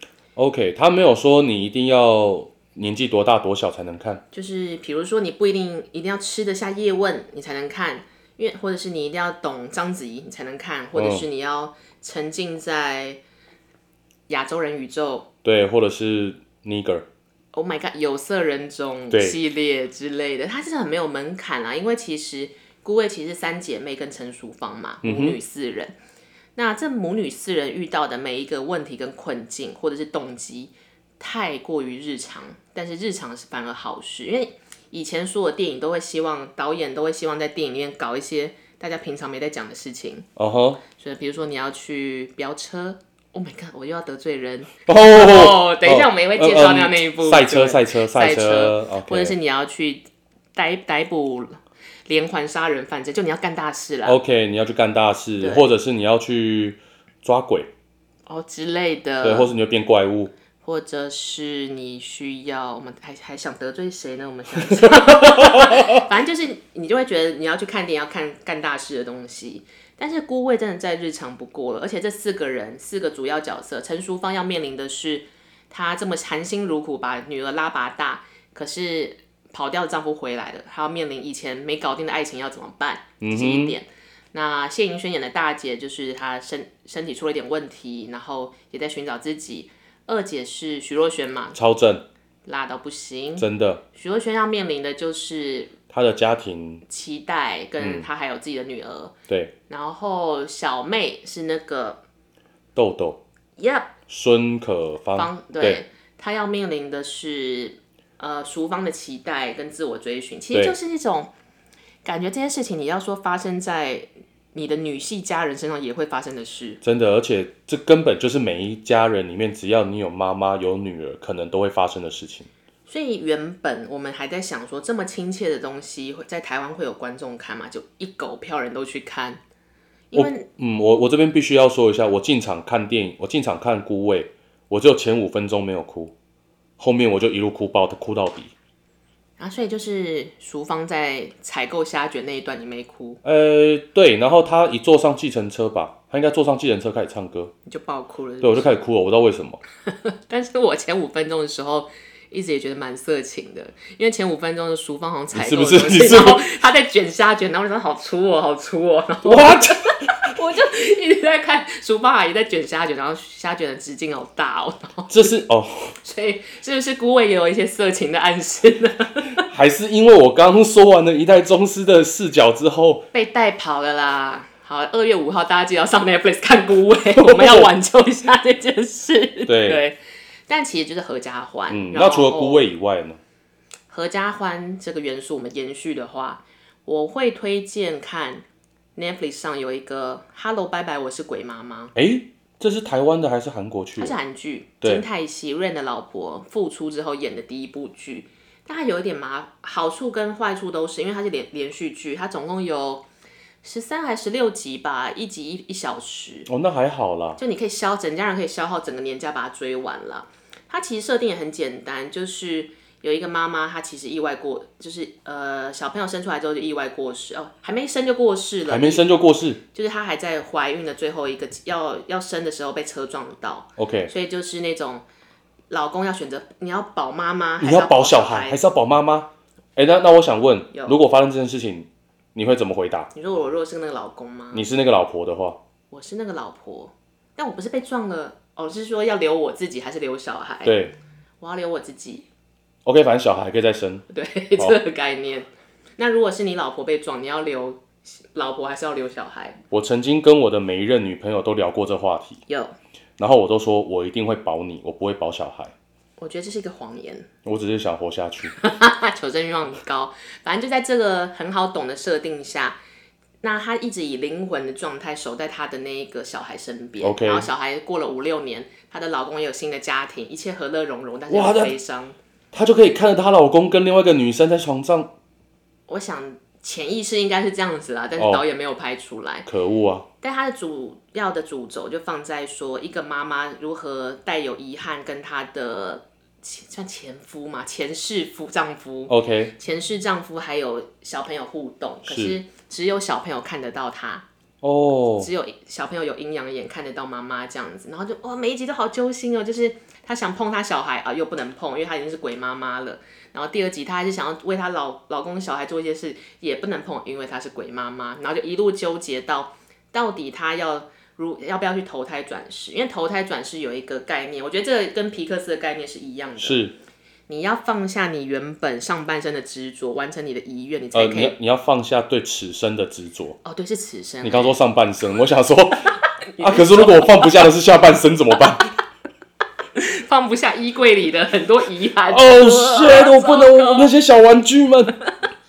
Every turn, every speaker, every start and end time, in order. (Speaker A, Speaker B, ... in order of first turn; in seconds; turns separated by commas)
Speaker A: 0.4-4.2, Speaker B: 4.3-13.2, Speaker A: 11.0-11.2, Speaker B: 14.3-15.3, Speaker A: 15.4-17.1, Speaker B: 17.5-25.9, Speaker A: 19.1-19.4, Speaker A: 25.0-25.4, Speaker B: 26.6-40.3, Speaker A: 40.4-40.8, Speaker B: 40.9-54.2, Speaker A: 44.9-49.4, Speaker A: 54.0-57.7, Speaker B: 55.4-55.7, Speaker B: 58.3-59.5, Speaker A: 59.2-60.3, Speaker B: 60.6-91.6, Speaker A: 64.7-66.0, Speaker A: 83.2-83.8, Speaker A: 91.5-92.0, Speaker B: 92.5-95.8, Speaker A: 93.4-93.8, Speaker A: 95.9-96.8, Speaker B: 96.9-99.1, Speaker A: 97.8-98.1, Speaker B: 99.7-102.0, Speaker A: 102.8-103.2, Speaker B: 103.6-103.9, Speaker A: 104.1-105.8, Speaker B: 105.1-111.3, Speaker B: 112.0-116.8, Speaker A: 116.8-122.5, Speaker B: 122.9-129.4, Speaker B: 130.1-130.5, Speaker A: 130.1-136.1, Speaker A: 136.8-138.5, Speaker B: 139.4-143.2, Speaker A: 143.2-147.5, Speaker B: 147.7-148.7, Speaker A: 148.4-149.6, Speaker B: 149.9-165.3, Speaker A: 155.3-156.4, Speaker A: 159.2-160.1, Speaker A: 165.1-165.9, Speaker B: 166.0-169.4, Speaker A: 169.4-173.1, Speaker B: 173.1-182.7, Speaker A: 177.2-177.7, Speaker A: 179.5-179.8, Speaker A: 181.7-183.2, Speaker B: 183.9-188.4, Speaker B: 189.0-191.9, Speaker A: 191.9-194.2, Speaker B: 194.0-203.1, Speaker B: 203.6-206.5, Speaker A: 206.5-207.4, Speaker B: 207.4-219.1, Speaker A: 218.7-219.6, Speaker B: 219.7-225.1, Speaker A: 223.8-224.1, Speaker B: 225.7-228.6, Speaker A: 227.6-233.1, Speaker B: 230.7-231.0, Speaker B: 233.1-234.7, Speaker A: 234.5-235.6, Speaker B: 235.9-240.8, Speaker A: 240.6-240.9, Speaker B: 241.4-242.2, Speaker A: 242.8-244.1, Speaker B: 244.1-249.6, Speaker A: 249.7-252.4, Speaker B: 252.5-252.8, Speaker A: 253.2-255.7, Speaker B: 256.2-257.3, Speaker A: 257.4-258.6, Speaker B: 258.6-262.8, Speaker B: 263.4-272.2, Speaker A: 267.0-267.5, Speaker A: 271.3-271.8, Speaker A: 272.5-275.1, Speaker B: 275.9-279.5, Speaker A: 278.2-278.4, Speaker A: 279.5-280.1, Speaker B: 280.2-294.2, Speaker A: 289.1-289.5, Speaker A: 292.1-292.4, Speaker A: 294.6-295.3, Speaker B: 295.2-316.6, Speaker A: 316.4-316.8, Speaker B: 317.3-321.4, Speaker A: 320.9-323.4, Speaker B: 323.4-324.6, Speaker A: 324.2-328.7, Speaker B: 326.3-327.3, Speaker B: 329.8-333.9, Speaker A: 332.1-334.9